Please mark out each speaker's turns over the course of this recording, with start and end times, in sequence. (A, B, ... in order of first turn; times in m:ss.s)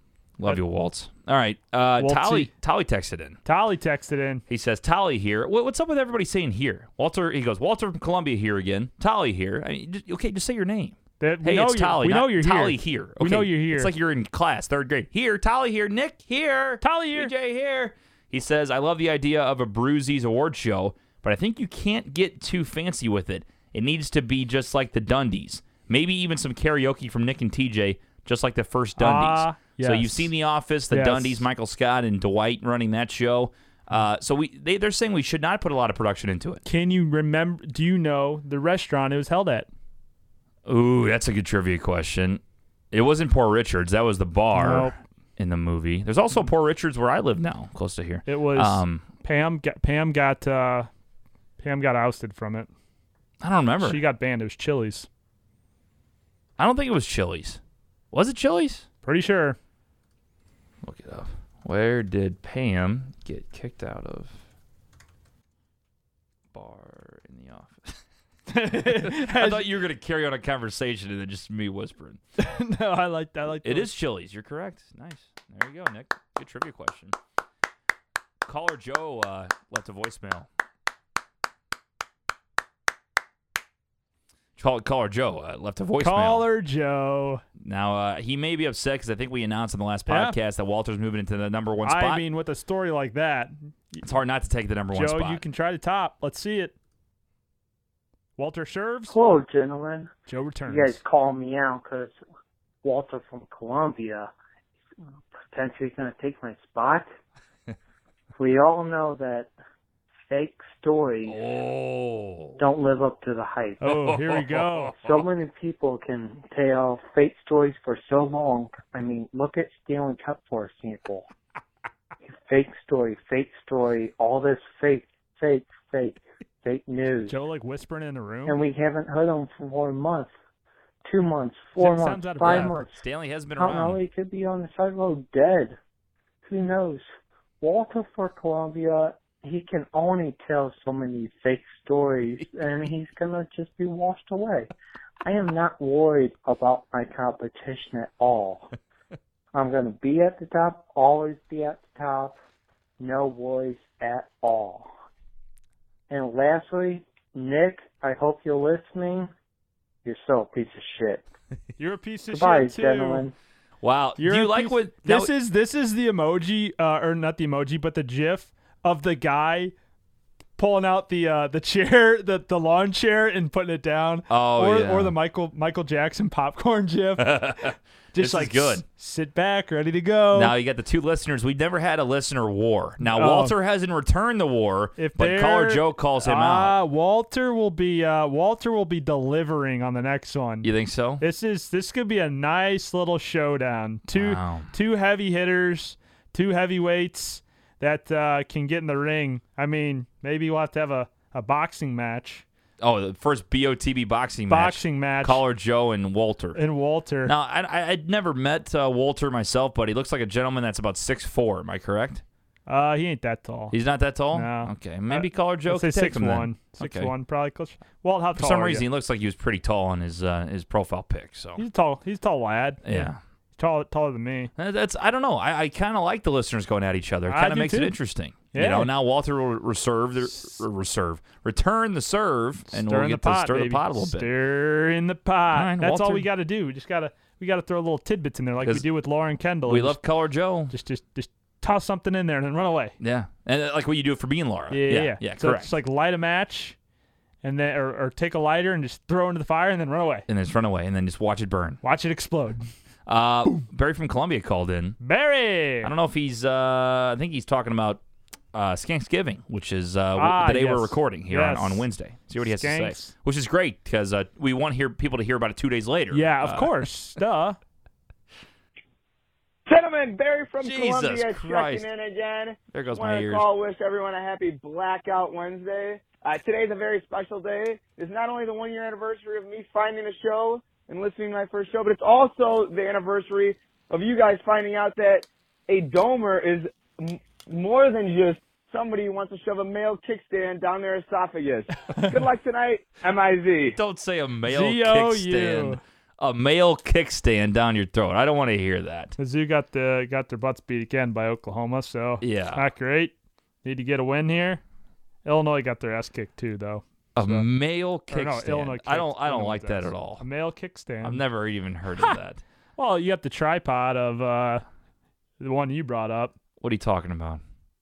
0:00.4-0:03.4 A
0:02.0-0:02.5 B
0:03.4-0:04.4 B
0:04.5-0:36.6 A
0:11.2-0:13.9 B
0:16.8-0:17.3 B
0:29.0-0:30.3 B
0:30.9-0:31.4 B
0:36.6-0:39.7 B
0:40.6-0:42.4 A
0:42.9-0:49.0 A
0:44.5-0:45.0 B
0:48.2-0:50.9 B
0:51.6-0:52.7 B
0:53.4-0:54.0 A
0:53.8-0:55.1 B
0:56.6-0:57.6 A
0:58.1-0:58.8 A
0:59.0-0:59.6 B
1:00.8-1:04.4 A
1:06.5-1:08.0 A
1:08.5-1:09.6 B
1:08.8-1:12.2 A
1:12.4-1:13.9 B
1:13.6-1:17.2 A
1:18.4-1:20.5 A
1:24.6-1:26.5 A
1:26.0-1:27.4 B
1:27.6-1:32.2 A
1:30.1-1:30.4 B
1:31.8-1:34.0 B
1:34.0-1:35.4 A
1:34.9-1:36.7 B
1:38.4-1:39.2 B
1:39.1-1:40.1 C
1:40.3-1:41.0 B
1:40.7-1:42.2 C
1:42.8-1:44.3 C
1:45.5-1:47.1 C
1:48.3-1:49.5 C
1:50.3-1:51.4 C
1:51.2-1:52.6 A
1:52.6-1:53.9 C
1:53.8-1:55.0 B
1:53.8-1:55.2 A
1:55.0-2:01.3 C
2:02.4-2:07.4 C
2:07.3-2:08.6 B
2:08.4-2:10.3 C
2:11.0-2:13.0 C
2:11.8-2:12.8 B
2:12.4-2:14.0 A
2:13.6-2:15.8 C
2:16.4-2:17.0 C
2:17.6-2:28.7 C
2:29.5-2:32.4 C
2:33.0-2:34.9 C
2:36.1-2:39.3 C
2:40.0-2:41.2 C
2:41.8-2:43.2 B
2:42.3-2:43.3 C
2:43.8-2:45.3 A
2:44.2-2:49.7 B
2:50.6-2:57.4 B
2:54.3-2:55.1 A
2:57.2-2:58.8 A
2:58.1-3:00.5 B
3:00.3-3:06.8 A
3:03.0-3:03.5 B
3:05.0-3:10.7 B
3:10.6-3:11.2 A
3:11.2-3:22.4 B
3:14.1-3:14.7 A
3:22.8-3:26.6 A
3:24.5-3:25.4 B
3:26.5-3:27.3 B
3:27.2-3:32.2 A
3:32.7-3:33.8 B
3:33.7-3:37.1 A
3:34.3-3:38.8 B
3:38.4-3:41.6 A
3:41.6-3:43.0 B
3:42.8-3:43.2 A
3:43.6-3:44.5 B
3:44.6-3:54.3 A
3:47.3-3:48.0 B
3:48.5-3:48.9 B
3:50.2-3:50.6 B
3:52.7-4:00.0 B
3:55.5-3:56.3 A
3:59.6-4:00.7 A
4:00.7-4:03.0 B
4:03.0-4:05.7 A
4:04.7-4:06.7 B
4:07.4-4:10.3 B
4:10.3-4:11.8 A
4:11.8-4:12.7 B
4:13.0-4:15.0 A
4:15.0-4:15.9 B
4:15.8-4:18.0 A
4:18.5-4:26.8 A
4:20.1-4:21.8 B
4:22.4-4:23.1 B
4:26.1-4:27.6 B
4:29.7-4:53.8 D
4:30.6-4:31.9 A
4:32.7-4:33.4 A
4:53.7-4:59.1 A
4:54.4-4:55.8 B
4:59.2-5:04.6 B
5:02.2-5:02.7 A
5:05.2-5:07.5 B
5:07.2-5:10.2 A
5:08.1-5:11.2 B
5:11.0-5:12.4 A
5:12.8-5:14.6 B
5:15.4-5:16.3 B
5:16.6-5:17.4 A